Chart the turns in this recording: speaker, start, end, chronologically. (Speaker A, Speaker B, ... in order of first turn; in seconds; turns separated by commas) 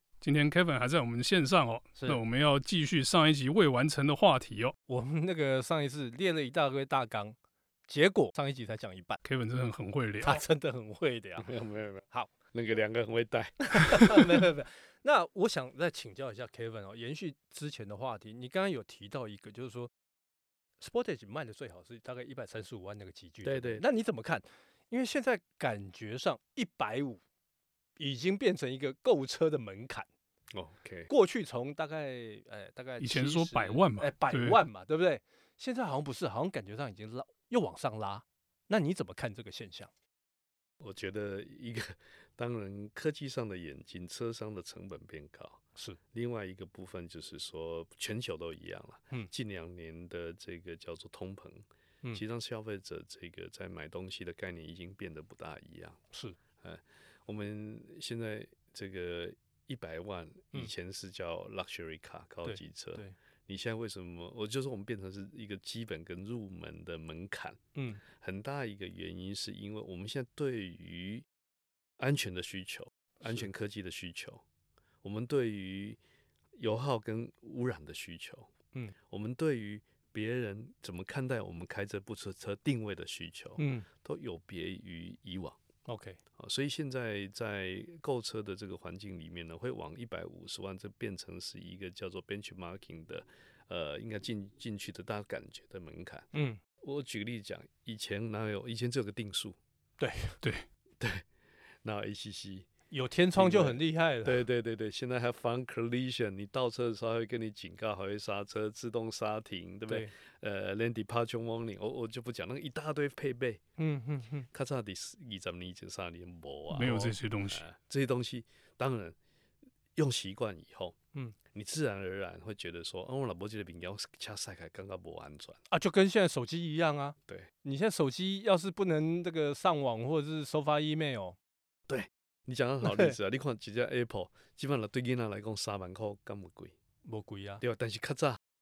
Speaker A: 0.2-4.8, Speaker B: 4.9-7.4, Speaker B: 7.9-9.2, Speaker A: 9.2-10.4, Speaker B: 10.2-11.5, Speaker C: 11.4-14.4, Speaker B: 12.1-12.3, Speaker B: 13.7-19.9, Speaker B: 20.8-27.2, Speaker C: 23.4-23.9, Speaker B: 28.0-30.1, Speaker C: 30.5-31.1, Speaker B: 31.1-39.9, Speaker A: 33.0-34.6, Speaker C: 40.8-45.6, Speaker C: 46.1-56.0, Speaker B: 56.1-56.4, Speaker C: 56.6-71.3, Speaker B: 62.4-63.2, Speaker B: 67.8-68.0, Speaker C: 72.0-74.4, Speaker C: 75.0-76.0, Speaker C: 76.5-85.6, Speaker B: 83.6-83.9, Speaker B: 85.9-86.2, Speaker C: 86.4-96.3, Speaker B: 96.3-96.6, Speaker C: 96.8-99.6, Speaker B: 100.0-100.4, Speaker A: 100.4-100.7, Speaker C: 101.0-101.3, Speaker C: 101.8-102.7, Speaker B: 102.9-104.4, Speaker C: 103.3-113.6, Speaker B: 113.8-114.5, Speaker C: 114.5-119.2, Speaker A: 116.7-117.6, Speaker B: 116.8-117.1, Speaker C: 120.0-121.0, Speaker C: 121.5-125.6, Speaker B: 125.7-131.4, Speaker C: 131.9-136.8, Speaker B: 132.8-133.1, Speaker B: 137.1-137.6, Speaker C: 137.6-138.4